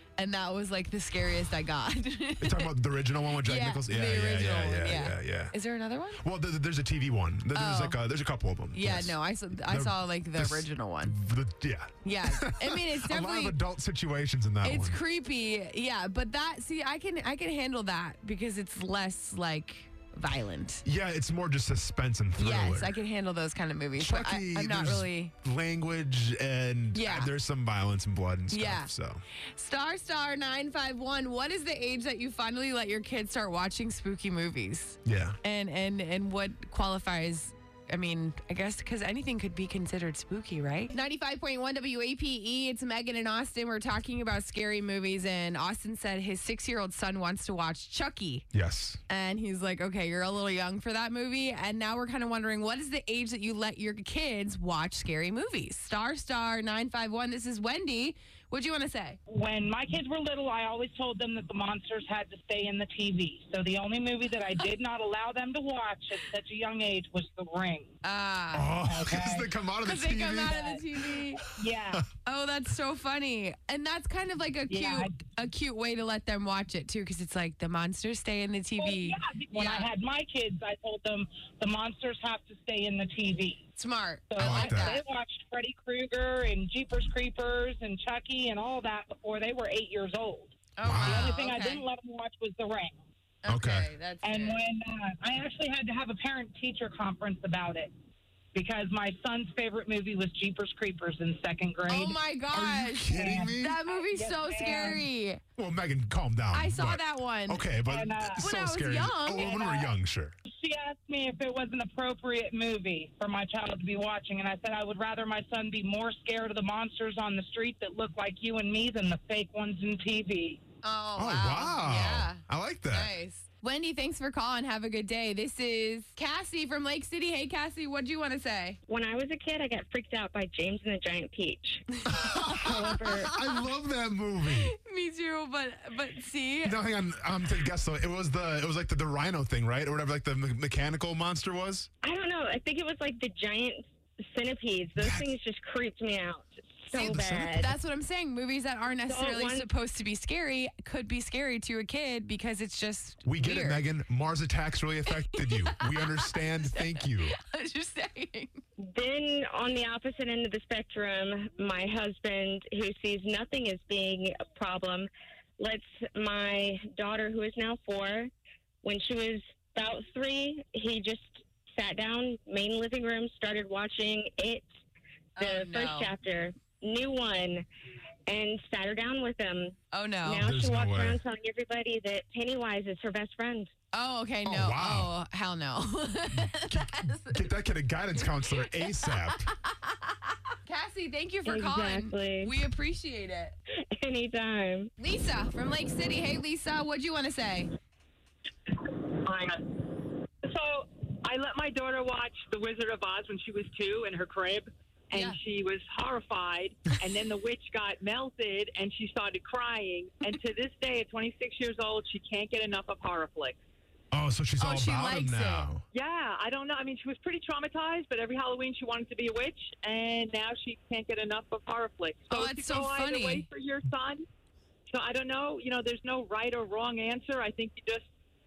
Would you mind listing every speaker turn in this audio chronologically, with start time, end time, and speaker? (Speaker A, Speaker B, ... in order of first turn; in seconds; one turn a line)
Speaker A: 0.2-2.8
Speaker B: 2.4-5.5
Speaker A: 3.3-6.2
Speaker B: 6.2-15.0
Speaker A: 7.5-8.0
Speaker A: 8.7-11.2
Speaker A: 12.0-13.6
Speaker A: 14.6-20.8
Speaker B: 20.8-23.0
Speaker A: 22.4-25.3
Speaker B: 23.9-29.2
Speaker A: 26.9-27.3
Speaker A: 28.5-28.9
Speaker A: 29.5-48.5
Speaker B: 35.0-35.4
Speaker B: 48.5-49.0
Speaker A: 49.1-59.2
Speaker C: 59.3-67.9
Speaker A: 68.0-68.7
Speaker B: 68.5-71.4
Speaker C: 68.8-69.5
Speaker A: 69.8-71.4
Speaker C: 71.6-72.0
Speaker A: 72.2-79.9
Speaker C: 74.7-75.1
Speaker C: 78.8-83.6
Speaker A: 83.8-85.0
Speaker C: 84.3-93.0
Speaker B: 84.4-84.8
Speaker A: 90.8-91.8
Speaker B: 90.8-91.3
Speaker A: 93.4-94.6
Speaker B: 93.5-93.9
Speaker C: 94.2-97.9
Speaker C: 98.5-102.2
Speaker A: 101.9-105.4
Speaker B: 102.5-103.8
Speaker C: 103.1-105.0
Speaker B: 105.6-110.3
Speaker A: 106.5-107.7
Speaker C: 107.9-108.4
Speaker A: 108.3-109.7
Speaker C: 109.4-109.9
Speaker C: 110.5-120.6
Speaker A: 120.8-128.8
Speaker B: 121.2-123.1
Speaker D: 128.9-133.3
Speaker A: 132.1-133.3
Speaker B: 132.1-134.7
Speaker A: 134.4-136.8
Speaker B: 136.6-141.9
Speaker D: 142.0-147.7
Speaker B: 144.9-145.3
Speaker A: 146.9-153.8
Speaker B: 147.0-147.8
Speaker D: 149.1-149.7
Speaker B: 153.2-157.3
Speaker A: 155.1-158.6
Speaker D: 158.9-168.3
Speaker D: 168.8-174.6
Speaker A: 175.3-176.1
Speaker D: 175.4-177.7
Speaker D: 178.3-183.7
Speaker A: 179.9-180.5
Speaker B: 180.4-181.2
Speaker A: 183.9-187.4
Speaker B: 184.4-185.1
Speaker B: 186.4-189.5
Speaker A: 188.2-190.1
Speaker A: 190.7-193.6
Speaker D: 191.4-192.5
Speaker D: 193.9-194.9
Speaker A: 195.0-197.7
Speaker E: 198.8-199.8
Speaker E: 200.4-213.6
Speaker A: 205.1-205.4
Speaker B: 214.1-215.8
Speaker A: 214.6-215.7
Speaker E: 215.9-224.2
Speaker A: 222.3-223.5
Speaker E: 224.9-228.0